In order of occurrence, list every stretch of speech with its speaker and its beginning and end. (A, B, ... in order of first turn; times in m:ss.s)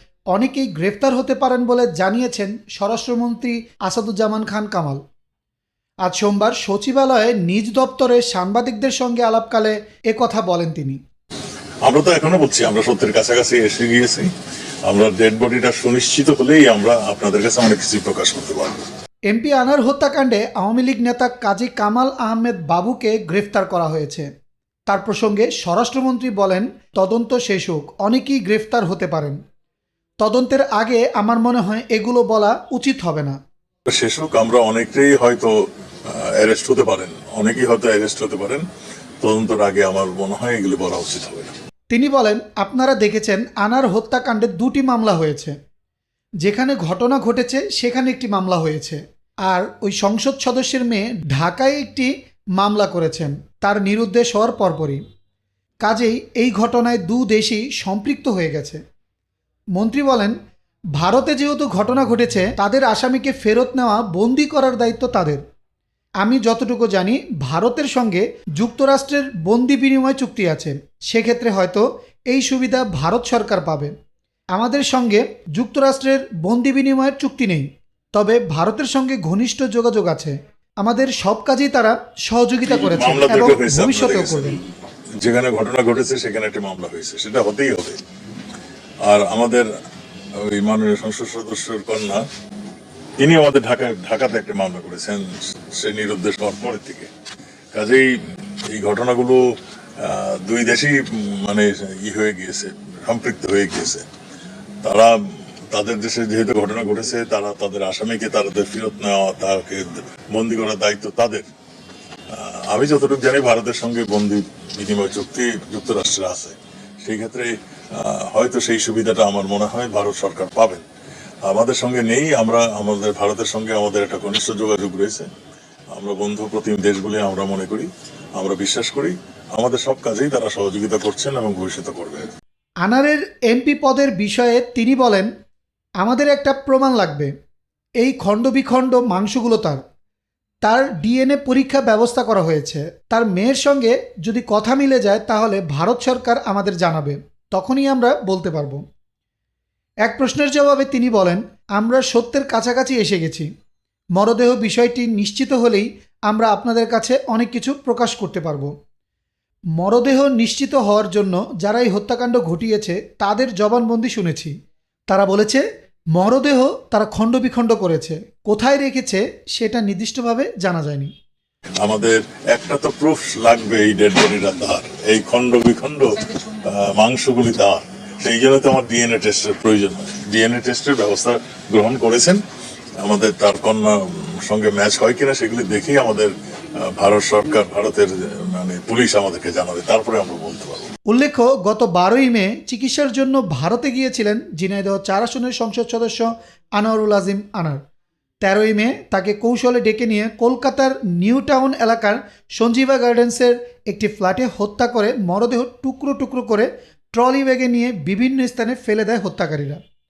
0:00.3-0:05.0 A
0:06.0-0:11.0 A
0:11.8-0:14.3 B
0:14.8-0:18.8 B
0:19.3-0:24.3 A
0:24.9-0:29.4 A
0:30.2-0:33.4 A
0:33.9-0:38.7 B
0:39.2-0:41.5 B
0:41.9-0:45.6 A
0:46.4-0:55.0 A
0:55.8-0:58.8 A
0:59.8-1:00.4 A
1:01.0-1:05.4 A
1:06.2-1:13.9 A
1:14.5-1:24.6 A
1:22.7-1:24.7 B
1:25.2-1:28.0 B
1:29.0-1:29.7 B
1:30.4-1:32.3 B
1:33.2-1:37.1 B
1:37.7-1:38.1 B
1:38.7-1:39.4 B
1:40.0-1:44.0 B
1:44.8-1:51.5 B
1:52.3-2:00.8 B
2:01.4-2:05.3 B
2:05.9-2:12.3 B
2:12.8-2:15.3 A
2:16.0-2:17.3 A
2:18.0-2:19.8 A
2:20.6-2:28.8 A
2:30.0-2:33.5 A
2:34.2-2:38.8 A
2:39.8-2:44.6 A
2:45.1-2:51.1 A
2:51.8-3:02.4 B
3:03.0-3:10.9 B
3:11.1-3:17.8 A
3:18.4-3:29.8 A